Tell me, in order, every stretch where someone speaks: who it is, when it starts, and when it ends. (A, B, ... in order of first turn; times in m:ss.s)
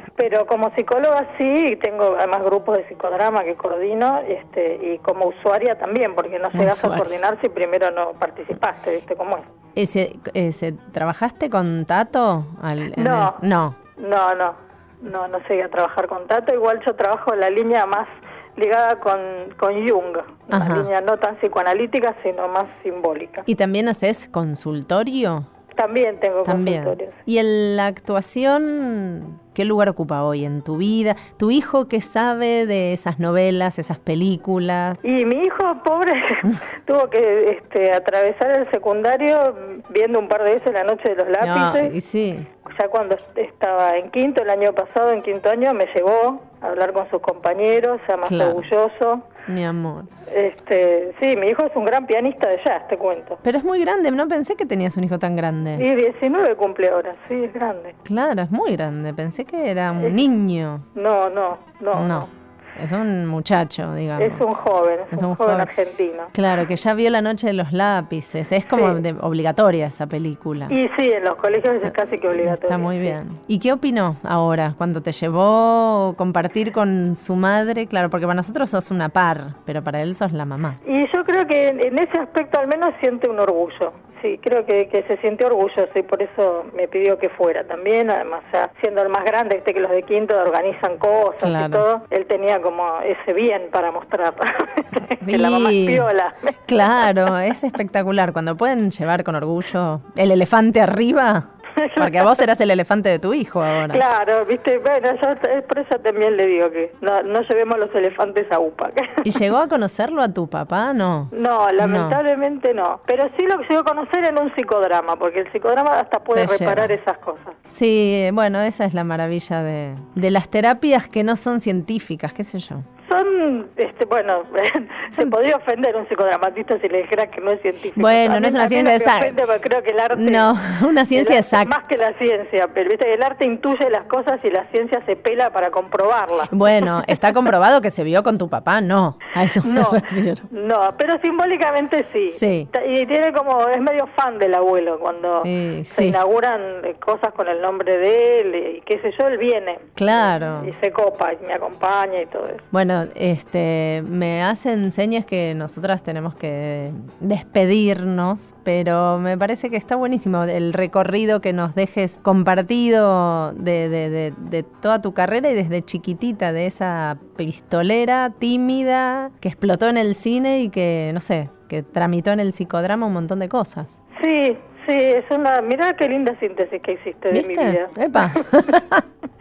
0:00.2-0:09.5 A
0:06.5-0:07.1 B
0:09.8-0:13.8 B
0:13.0-0:13.4 A
0:14.0-0:23.5 A
0:20.5-0:20.9 B
0:23.5-0:25.5 B
0:25.8-0:27.1 A
0:26.4-0:35.0 B
0:35.0-0:41.9 A
0:41.4-0:42.5 B
0:42.6-0:49.3 A
0:48.2-0:48.7 B
0:49.5-0:50.1 B
0:50.3-0:53.4 A
0:53.4-0:55.9 B
0:55.8-0:58.0 A
0:58.0-1:00.8 B
1:01.0-1:02.3 A
1:01.9-1:04.5 B
1:04.2-1:06.3 A
1:05.1-1:05.7 B
1:06.3-1:10.8 B
1:08.7-1:09.0 A
1:10.7-1:13.2 A
1:11.9-1:20.8 B
1:20.8-1:37.1 A
1:31.4-1:31.8 B
1:35.2-1:36.1 B
1:36.7-1:41.5 B
1:41.8-1:42.4 A
1:42.0-1:44.0 B
1:43.9-1:49.2 A
1:49.2-1:52.2 B
1:51.3-1:57.6 A
1:56.3-1:56.9 B
1:57.7-2:02.8 B
2:03.1-2:10.5 A
2:08.0-2:09.4 B
2:10.1-2:11.7 B
2:11.1-2:17.2 A
2:16.5-2:20.5 B
2:19.6-2:32.6 A
2:22.3-2:22.7 B
2:25.4-2:26.2 B
2:30.0-2:30.7 B
2:32.7-2:54.0 B
2:54.2-2:58.4 A
2:57.3-2:59.0 B